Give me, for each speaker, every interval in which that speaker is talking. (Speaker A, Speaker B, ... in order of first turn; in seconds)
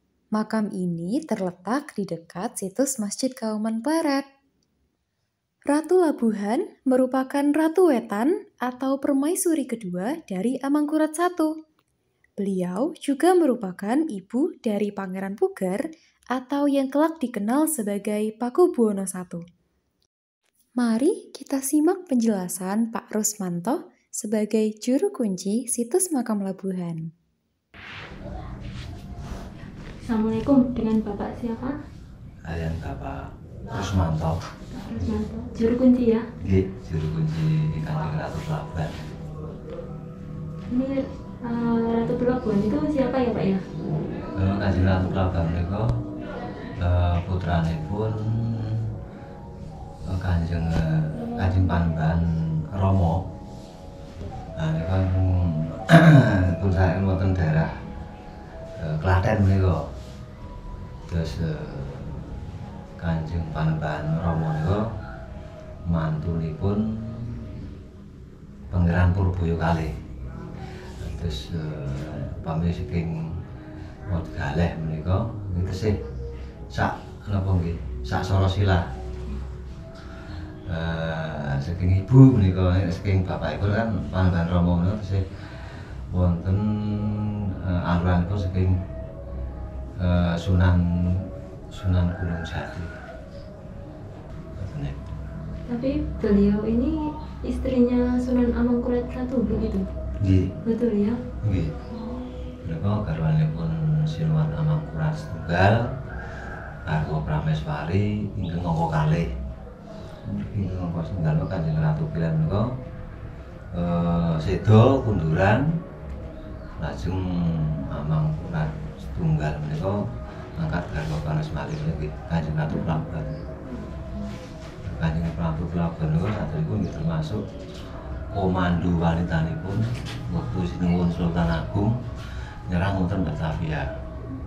Speaker A: 0.4-4.2, 5.7-11.5, 12.4-15.8, 16.4-19.4, 20.8-27.1
Speaker B: 30.0-31.8, 34.7-36.3, 40.7-43.6, 95.7-99.9, 100.7-101.2, 102.0-102.2, 122.7-123.0
Speaker C: 32.4-34.4, 35.0-35.2, 36.4-39.1, 44.4-46.0, 46.8-48.9, 50.1-53.2, 54.6-57.8, 58.8-59.8, 61.1-62.4, 63.0-64.9, 65.9-67.4, 68.7-69.9, 71.0-73.4, 74.1-76.0, 76.7-78.9, 80.7-85.2, 86.1-88.8, 90.0-92.9, 94.6-95.1, 100.2-100.5, 101.4-101.7, 102.6-105.9, 106.9-109.3, 110.2-112.7, 113.7-115.7, 116.8-120.0, 120.6-123.5, 124.8-127.4, 128.3-132.0, 132.7-133.9